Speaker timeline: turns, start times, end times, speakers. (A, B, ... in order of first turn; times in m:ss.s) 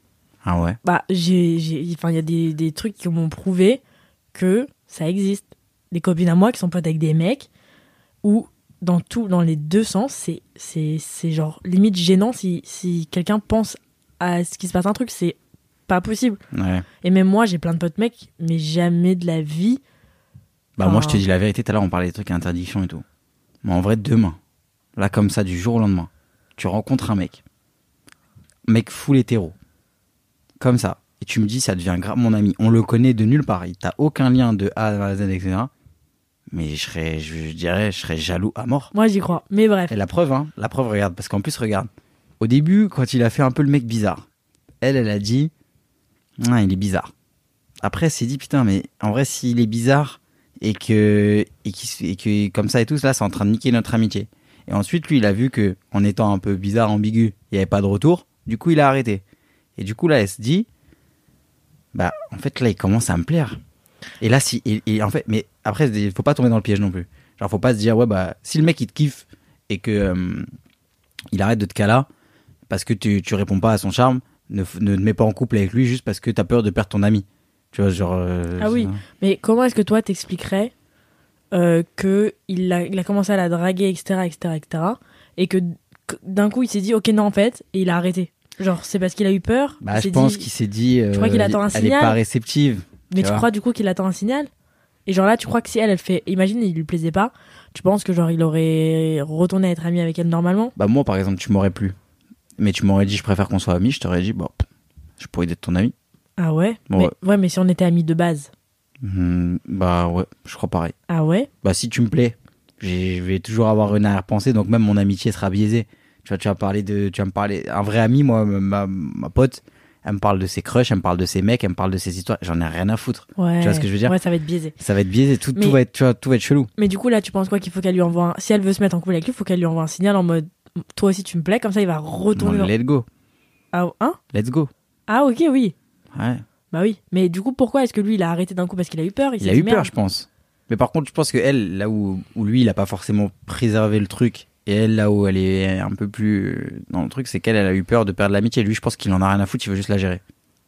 0:00.4-0:00.8 A
0:00.8-0:03.8 B
0:04.3-0:07.5 B
0:08.2-0:16.4 B
0:16.5-0:16.9 A
0:17.0-0:19.8 B
0:20.8-0:23.0 A
0:20.8-0:21.2 B
0:23.6-0:24.4 A
0:25.0-0:27.4 A
0:28.7-0:29.5 A
0:30.6-0:35.7 A
0:36.5-0:38.9 A
0:38.9-0:39.9 B
0:39.9-0:41.9 A
0:42.4-0:44.2 A
0:44.8-0:45.5 A
0:46.4-0:47.1 A
0:47.8-0:59.2 A
0:59.8-1:00.7 A
1:01.9-1:03.6 A
1:04.2-1:10.5 A
1:11.3-1:12.1 A
1:12.7-1:19.0 A
1:18.6-1:20.7 B
1:21.5-1:30.5 B
1:29.8-1:33.5 A
1:31.1-1:32.2 B
1:33.1-1:34.5 B
1:35.1-1:40.7 B
1:40.8-1:42.0 A
1:42.6-1:44.6 A
1:45.2-1:45.9 A
1:46.4-1:48.5 B
1:49.0-1:50.9 A
1:51.1-1:51.5 B
1:51.6-2:04.2 A
2:03.4-2:04.7 B
2:04.8-2:06.7 A
2:06.8-2:12.7 B
2:12.4-2:13.1 A
2:13.7-2:14.2 B
2:14.3-2:14.7 A
2:15.1-2:15.7 B
2:16.1-2:16.4 A
2:16.7-2:19.9 B
2:19.4-2:30.2 A